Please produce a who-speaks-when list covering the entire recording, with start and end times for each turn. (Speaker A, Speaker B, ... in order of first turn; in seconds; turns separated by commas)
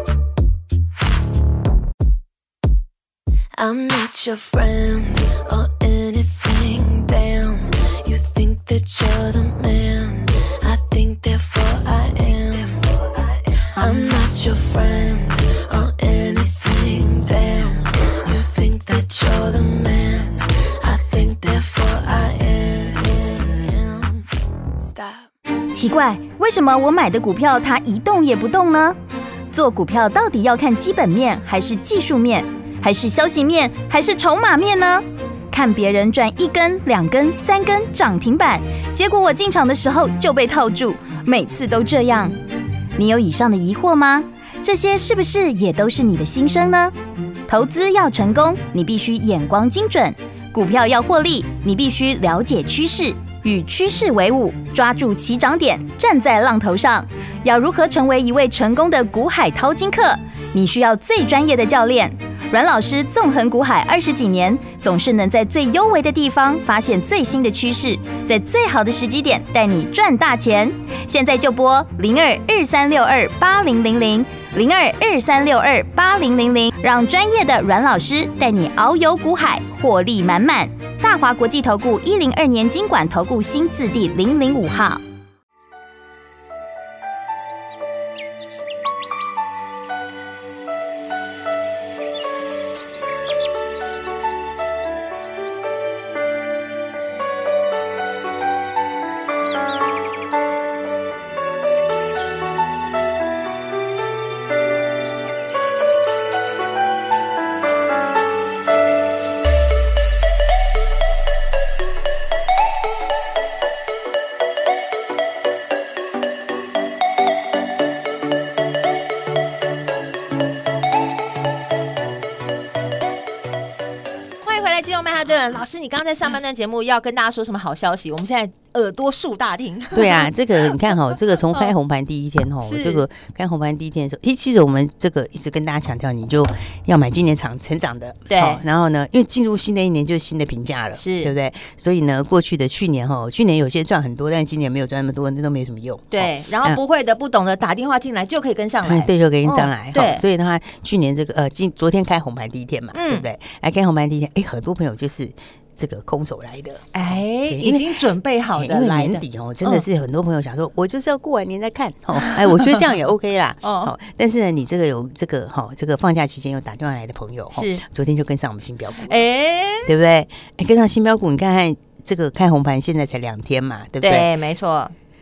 Speaker A: 3.5-24.2, Speaker A: 24.8-25.3, Speaker B: 25.7-29.0, Speaker B: 29.5-42.4, Speaker B: 43.0-46.9, Speaker B: 47.5-85.0, Speaker C: 124.4-130.3, Speaker D: 129.9-146.8, Speaker C: 132.6-133.0, Speaker C: 138.3-138.6, Speaker C: 141.0-141.3, Speaker C: 146.1-150.2, Speaker D: 148.8-157.9, Speaker C: 152.9-153.3, Speaker C: 156.9-159.8, Speaker D: 158.6-169.2, Speaker C: 162.2-162.8, Speaker C: 163.6-163.9, Speaker C: 167.5-167.8, Speaker C: 169.0-169.9, Speaker D: 169.8-174.3, Speaker C: 174.0-174.9